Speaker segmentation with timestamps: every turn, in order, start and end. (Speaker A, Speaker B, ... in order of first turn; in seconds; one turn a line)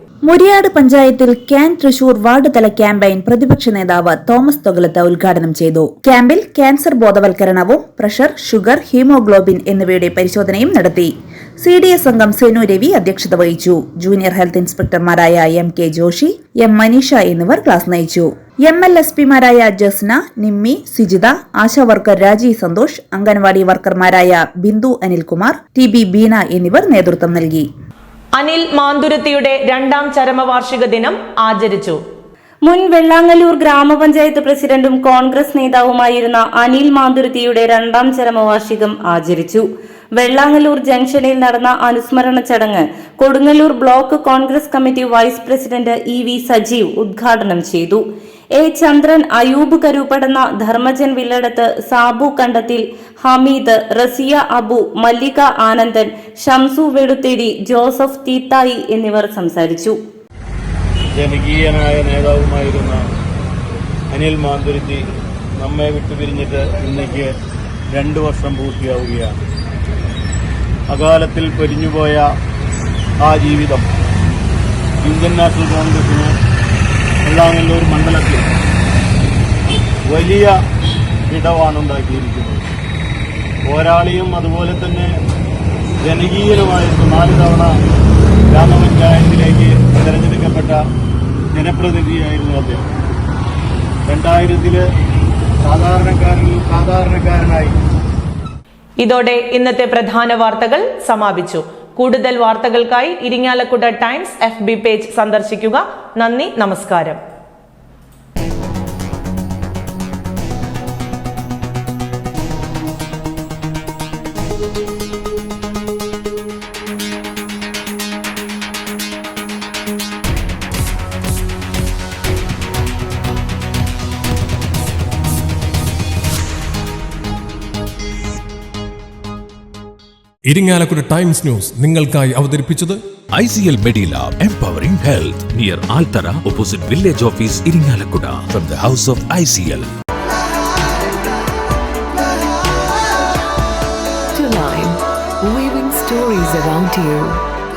Speaker A: 0.3-27.7
Speaker B: 28.4-32.0
Speaker C: 32.6-48.0
Speaker C: 48.5-60.0
Speaker D: 61.1-63.0
Speaker D: 64.1-65.0
Speaker D: 65.6-67.3
Speaker D: 67.9-69.4
Speaker D: 70.9-72.3
Speaker D: 73.2-73.9
Speaker D: 75.0-76.3
Speaker D: 77.2-78.5
Speaker D: 80.1-80.5
Speaker D: 81.3-82.7
Speaker D: 83.7-85.1
Speaker D: 86.0-87.7
Speaker D: 88.5-90.8
Speaker D: 91.5-92.9
Speaker D: 94.1-94.8
Speaker D: 95.6-97.8
Speaker B: 99.0-107.2
Speaker E: 130.5-133.0
Speaker F: 133.3-139.9
Speaker G: 144.3-147.4